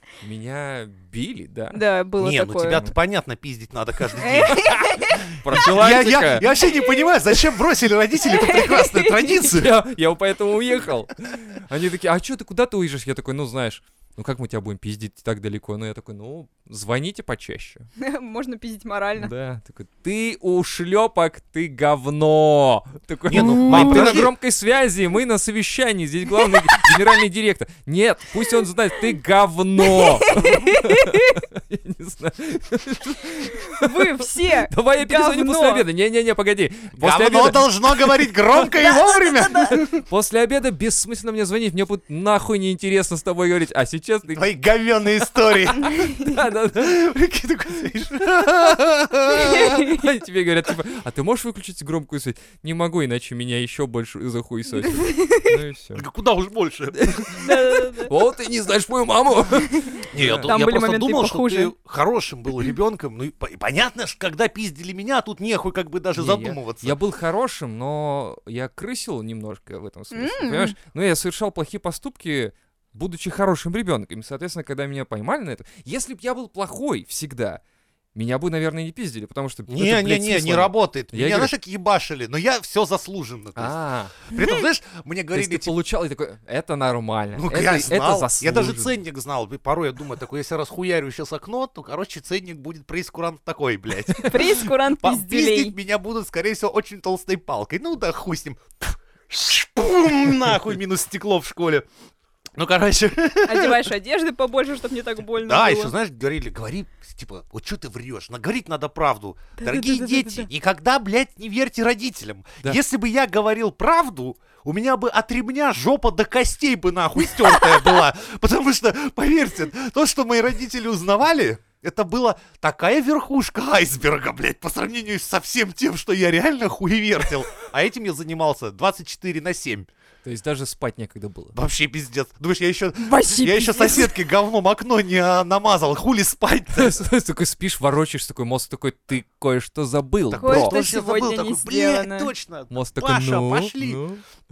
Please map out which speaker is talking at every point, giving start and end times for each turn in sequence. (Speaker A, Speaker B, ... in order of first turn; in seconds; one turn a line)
Speaker A: 0.2-1.8
Speaker B: 1.7-2.8
Speaker C: 2.2-9.7
Speaker B: 4.2-5.2
Speaker A: 4.6-6.5
Speaker B: 6.7-7.1
Speaker B: 8.3-9.5
Speaker A: 9.5-17.9
Speaker B: 18.0-19.3
Speaker A: 19.2-34.1
Speaker C: 23.3-24.3
Speaker B: 23.4-24.1
Speaker B: 29.9-31.4
Speaker B: 33.6-35.8
Speaker A: 34.7-38.5
Speaker C: 37.0-40.0
Speaker B: 38.7-39.8
Speaker A: 39.9-44.5
Speaker C: 44.3-49.7
Speaker A: 45.7-47.0
Speaker A: 49.3-56.0
Speaker B: 49.4-50.0
Speaker B: 54.8-55.5
Speaker C: 55.9-57.4
Speaker A: 56.9-60.5
Speaker B: 57.4-58.1
Speaker B: 59.8-61.7
Speaker C: 60.1-67.0
Speaker A: 66.2-77.6
Speaker B: 70.1-70.7
Speaker A: 78.1-81.5
Speaker C: 79.7-85.7
Speaker A: 83.5-84.1
Speaker B: 84.3-84.6
Speaker A: 85.3-88.9
Speaker C: 87.3-101.8
Speaker B: 94.2-95.7
Speaker C: 102.6-103.9
Speaker B: 103.4-105.9
Speaker C: 105.4-129.9
Speaker B: 109.6-110.5
Speaker A: 130.2-131.5
Speaker C: 131.5-137.1
Speaker B: 133.0-134.1
Speaker A: 136.8-140.8
Speaker C: 140.3-144.0
Speaker B: 140.4-142.3
Speaker A: 142.7-144.2